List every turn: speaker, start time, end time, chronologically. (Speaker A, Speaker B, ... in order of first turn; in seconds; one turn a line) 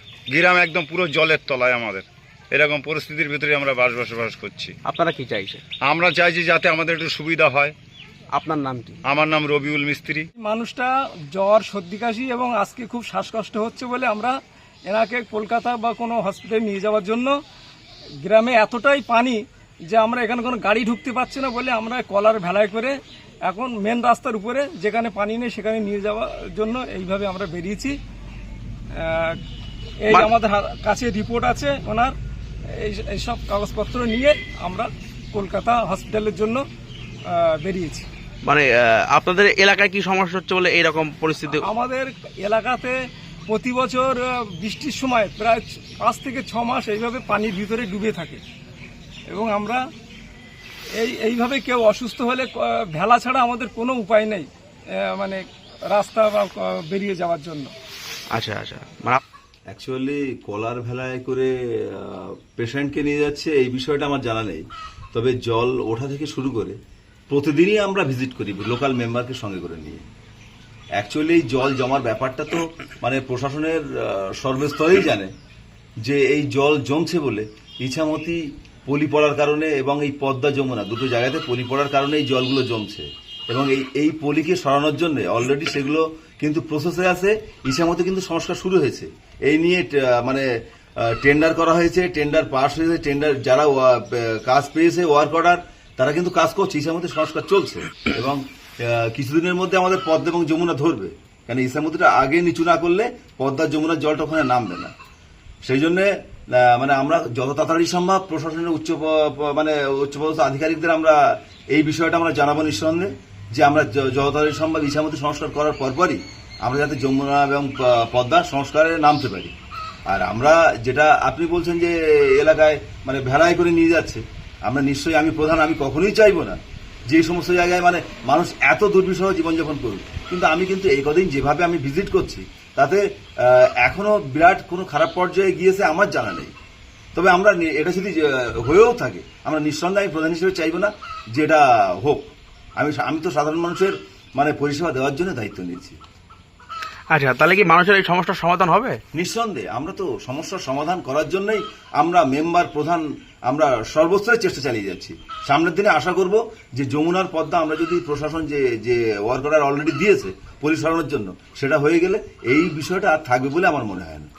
Speaker A: 0.3-4.7
Speaker B: 4.8-5.6
Speaker A: 5.8-7.7
Speaker B: 8.3-9.0
Speaker A: 9.1-10.3
Speaker C: 10.4-17.4
Speaker C: 18.2-28.0
Speaker C: 28.9-29.4
Speaker C: 30.0-32.1
Speaker C: 32.7-36.6
Speaker C: 37.3-38.1
Speaker B: 38.4-41.6
Speaker C: 41.6-48.4
Speaker C: 49.3-49.8
Speaker C: 50.9-57.7
Speaker B: 58.3-59.2
Speaker D: 59.7-66.8
Speaker D: 67.3-70.0
Speaker D: 71.0-75.3
Speaker D: 76.0-90.5
Speaker D: 91.0-104.9
Speaker D: 105.6-111.2
Speaker D: 111.7-119.5
Speaker D: 120.1-136.5
Speaker D: 137.1-146.0
Speaker B: 147.1-149.0
Speaker D: 149.1-164.3